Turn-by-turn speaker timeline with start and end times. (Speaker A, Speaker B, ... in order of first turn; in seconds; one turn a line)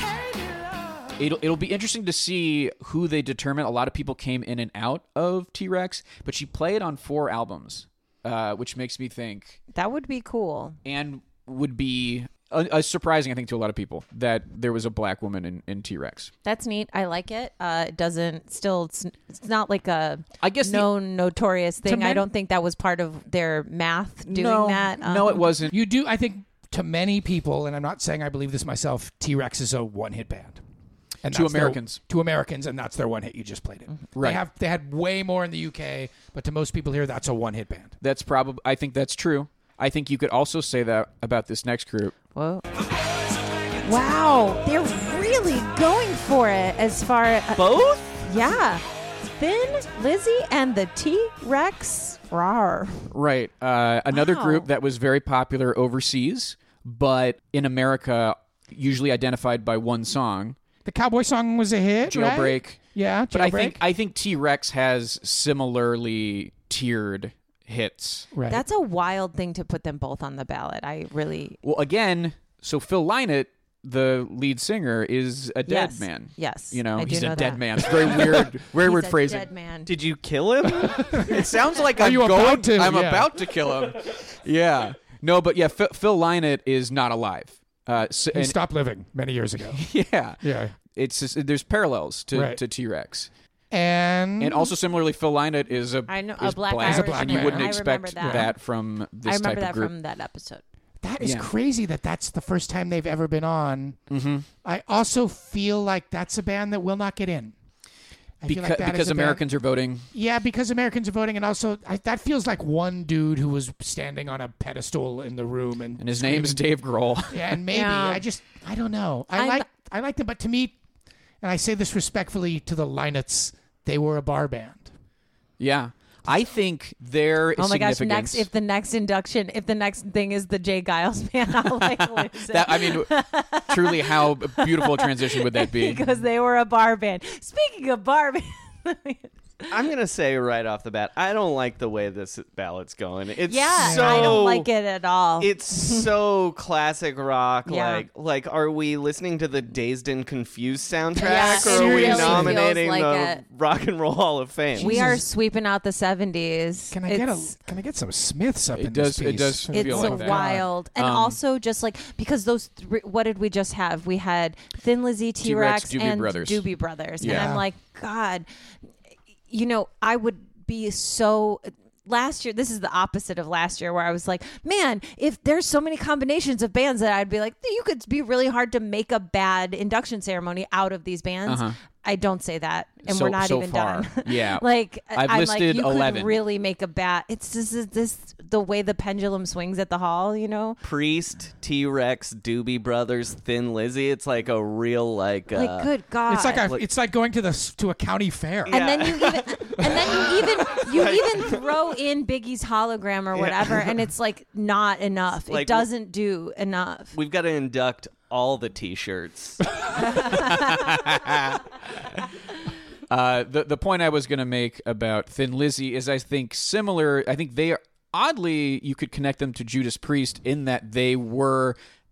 Speaker A: 1.2-9.6
Speaker B: 9.7-10.8
Speaker A: 10.8-16.3
Speaker B: 16.4-25.5
Speaker A: 20.4-20.9
Speaker C: 21.8-22.2
Speaker A: 24.3-25.8
Speaker C: 25.7-30.6
Speaker C: 31.2-37.9
Speaker A: 31.3-32.0
Speaker A: 34.1-34.4
Speaker A: 38.0-42.1
Speaker B: 42.3-42.6
Speaker B: 43.8-53.1
Speaker D: 47.5-48.1
Speaker A: 53.1-60.6
Speaker B: 54.1-54.7
Speaker C: 60.8-63.8
Speaker A: 62.0-68.3
Speaker C: 68.3-68.6
Speaker B: 68.5-71.6
Speaker A: 71.6-79.5
Speaker B: 75.7-79.9
Speaker D: 79.8-81.4
Speaker A: 81.1-88.5
Speaker C: 81.9-83.3
Speaker C: 88.3-89.8
Speaker A: 89.7-93.3
Speaker C: 90.4-90.7
Speaker C: 92.3-92.6
Speaker C: 93.7-94.7
Speaker A: 94.4-99.9
Speaker B: 96.1-98.5
Speaker C: 96.8-98.5
Speaker B: 99.2-100.6
Speaker C: 101.0-104.0
Speaker A: 101.2-101.5
Speaker A: 104.1-104.5
Speaker C: 104.6-107.5
Speaker C: 108.4-109.4
Speaker A: 108.5-110.1
Speaker C: 110.1-116.6
Speaker A: 116.0-117.6
Speaker C: 117.3-120.8
Speaker B: 117.7-118.2
Speaker B: 119.3-119.7
Speaker C: 121.4-124.9
Speaker A: 125.6-128.5
Speaker B: 127.6-139.3
Speaker A: 132.2-136.0
Speaker D: 139.7-144.7
Speaker B: 143.5-146.1
Speaker C: 143.8-144.4
Speaker D: 145.4-155.2
Speaker B: 147.7-148.1
Speaker B: 151.2-153.4
Speaker C: 151.2-152.6
Speaker C: 154.8-155.2
Speaker B: 154.8-157.5
Speaker C: 156.9-160.7
Speaker A: 158.7-161.4
Speaker B: 159.7-168.4
Speaker A: 165.4-166.6
Speaker A: 167.2-167.6
Speaker C: 167.2-167.6
Speaker B: 169.5-190.8
Speaker A: 181.5-181.8
Speaker A: 183.1-186.4
Speaker D: 190.8-195.9
Speaker B: 195.5-196.7
Speaker C: 196.3-198.8
Speaker D: 198.7-201.7
Speaker B: 198.7-207.1
Speaker D: 203.3-203.9
Speaker D: 205.5-205.9
Speaker D: 207.1-209.8
Speaker A: 210.2-211.6
Speaker A: 213.1-221.8